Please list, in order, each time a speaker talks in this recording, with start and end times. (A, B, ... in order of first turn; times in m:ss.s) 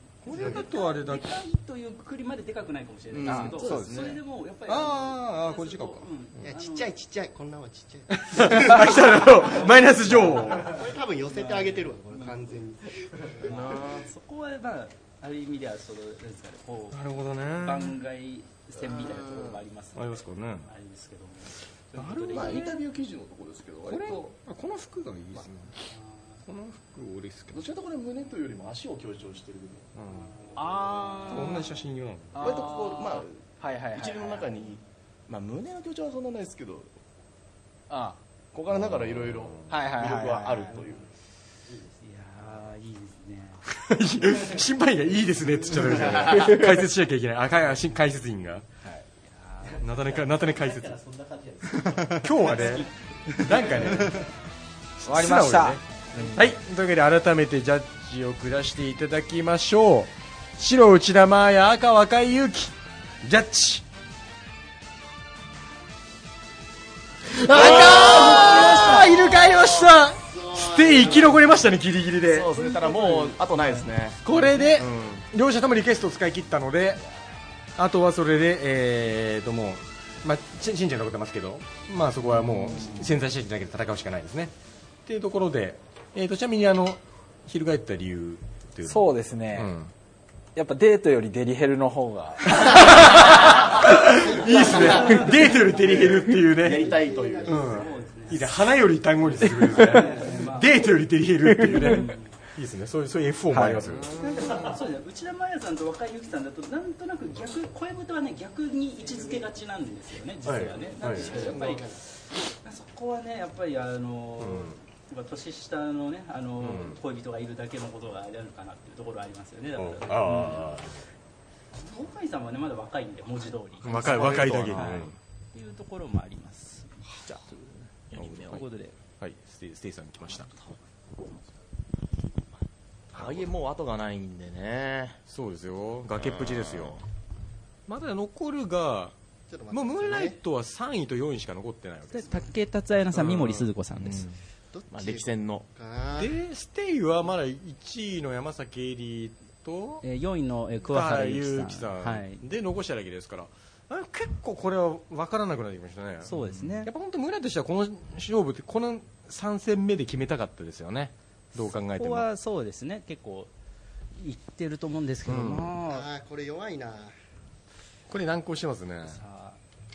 0:00.2-0:01.4 A
0:00.2-0:06.9 B
0:00.3-0:00.6 C
0:03.1-0:04.2 D
0:03.2-0:04.1 E
0:04.7-0:06.1 A
0:06.4-0:09.0 C
0:08.1-0:10.8 A
0:10.0-0:12.6 B
0:10.6-0:13.8 C
0:13.4-0:17.0 B
0:13.4-0:14.1 D
0:16.9-0:18.0 A
0:17.5-0:22.8 B
0:18.8-0:19.6 D
0:19.9-0:20.7 A
0:22.0-0:22.7 A
0:22.2-0:24.3 D
0:23.8-0:25.9 A
0:25.9-0:26.4 B
0:26.5-0:27.7 A
0:27.5-0:29.9 D
0:29.9-0:30.3 A
0:30.1-0:31.8 B
0:30.6-0:31.7 E
0:31.3-0:32.4 A
0:32.3-0:34.5 E
0:32.4-0:33.4 D
0:33.9-0:36.9 D
0:37.9-0:38.2 E
0:38.5-0:41.1 D
0:38.7-0:39.7 A
0:39.7-0:40.7 E
0:40.7-0:41.0 B
0:41.8-0:43.6 B
0:43.7-0:48.6 A
0:46.0-0:46.5 D
0:49.2-0:49.8 B
0:49.8-0:51.0 A
0:52.0-0:54.3 A
0:52.0-0:52.9 B
0:53.5-0:54.2 B
0:55.0-0:55.8 A
0:55.0-0:56.3 E
0:56.2-0:56.4 B
0:56.3-1:03.8 A
1:07.3-1:12.5 A
1:07.5-1:09.8 D
1:07.6-1:09.4 C
1:10.2-1:11.4 C
1:11.0-1:11.3 B
1:12.3-1:14.2 D
1:12.5-1:14.8 B
1:14.2-1:17.0 A
1:14.7-1:15.2 D
1:17.8-1:24.5 A
1:22.7-1:23.1 B
1:25.0-1:29.9 A
1:28.9-1:29.8 E
1:30.5-1:32.8 E
1:32.5-1:36.9 A
1:34.4-1:37.8 D
1:34.5-1:35.0 C
1:35.1-1:35.3 B
1:36.7-1:38.0 C
1:37.5-1:38.5 B
1:37.5-1:44.1 A
1:39.4-1:40.0 E
1:39.8-1:40.9 B
1:41.4-1:42.0 E
1:41.7-1:42.3 B
1:43.5-1:43.9 E
1:43.9-1:44.7 D
1:44.2-1:51.9 B
1:50.4-1:51.5 A
1:51.0-1:52.0 C
1:52.5-2:00.8 B
1:54.4-1:54.8 A
1:56.6-1:57.0 A
1:59.8-2:00.9 A
2:01.8-2:09.0 B
2:03.8-2:05.1 A
2:03.8-2:05.0 D
2:08.1-2:08.6 D
2:08.2-2:08.6 A
2:09.2-2:10.5 A
2:13.1-2:13.5 A
2:13.1-2:15.2 D
2:15.3-2:17.0 A
2:16.2-2:17.0 D
2:17.9-2:19.1 A
2:19.5-2:20.4 C
2:19.7-2:22.5 A
2:22.1-2:24.3 B
2:23.1-2:24.3 A
2:24.7-2:26.3 C
2:24.9-2:25.6 D
2:26.2-2:30.0 A
2:30.0-2:32.4 B
2:30.8-2:42.2 A
2:36.2-2:36.9 B
2:41.9-2:43.5 B
2:44.2-2:46.1 B
2:45.2-2:45.7 A
2:45.8-2:47.1 C
2:48.1-2:49.2 A
2:49.0-2:49.6 B